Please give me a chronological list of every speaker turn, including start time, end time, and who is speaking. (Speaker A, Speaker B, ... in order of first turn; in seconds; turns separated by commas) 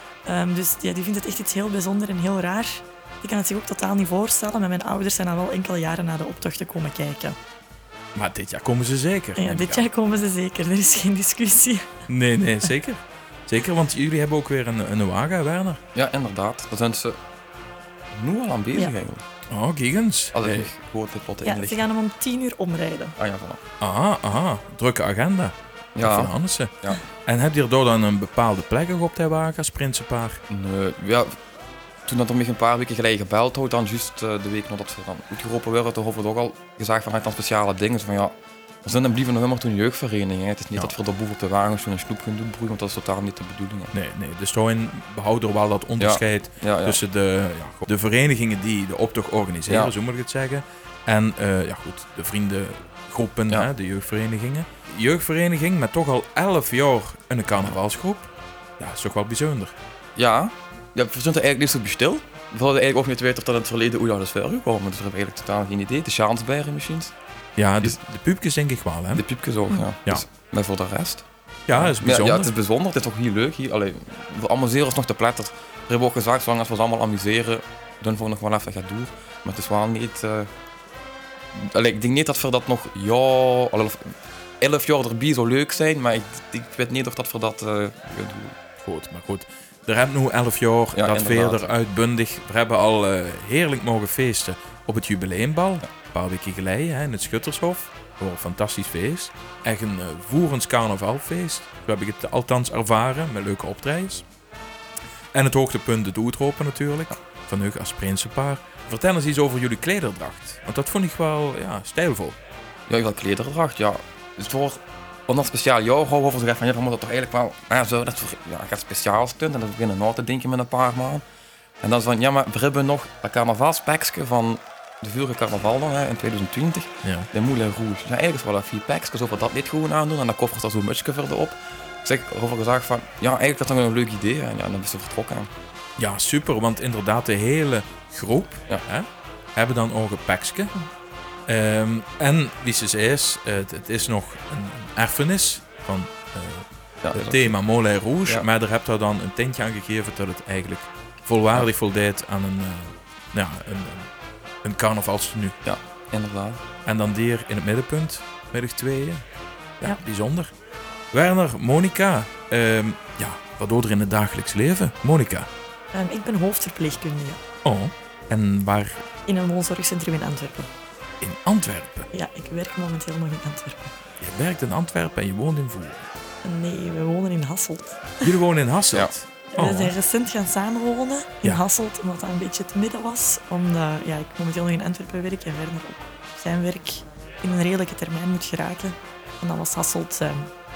Speaker A: 0.2-7.4, Speaker B: 8.1-9.9, Speaker A: 9.4-12.0, Speaker B: 12.1-15.8, Speaker C: 15.9-17.2, Speaker C: 18.1-19.2, Speaker B: 19.5-20.7, Speaker C: 20.3-21.8, Speaker A: 21.4-23.1, Speaker C: 23.2-23.6, Speaker B: 23.8-30.4, Speaker C: 25.9-27.0, Speaker C: 30.5-31.3, Speaker C: 32.0-38.3, Speaker C: 38.8-43.9, Speaker B: 43.9-59.7, Speaker C: 46.0-47.0, Speaker C: 49.7-49.9, Speaker C: 60.1-67.1, Speaker B: 67.6-69.2, Speaker C: 69.1-80.5, Speaker B: 71.7-72.5, Speaker C: 81.5-88.5, Speaker B: 88.8-104.2, Speaker C: 90.9-91.7, Speaker B: 105.3-112.4, Speaker C: 112.9-121.2, Speaker C: 121.8-135.5, Speaker B: 136.0-140.7, Speaker B: 141.5-154.1, Speaker C: 147.0-147.6, Speaker B: 154.6-155.6, Speaker C: 155.6-156.6, Speaker B: 156.8-159.2, Speaker B: 159.8-160.5, Speaker B: 161.1-165.5, Speaker A: 165.9-167.4, Speaker B: 167.6-169.0, Speaker A: 169.3-170.7, Speaker B: 171.2-172.1, Speaker A: 172.1-173.9, Speaker B: 174.2-176.1, Speaker A: 176.4-178.3, Speaker B: 178.2-179.9, Speaker A: 179.5-190.5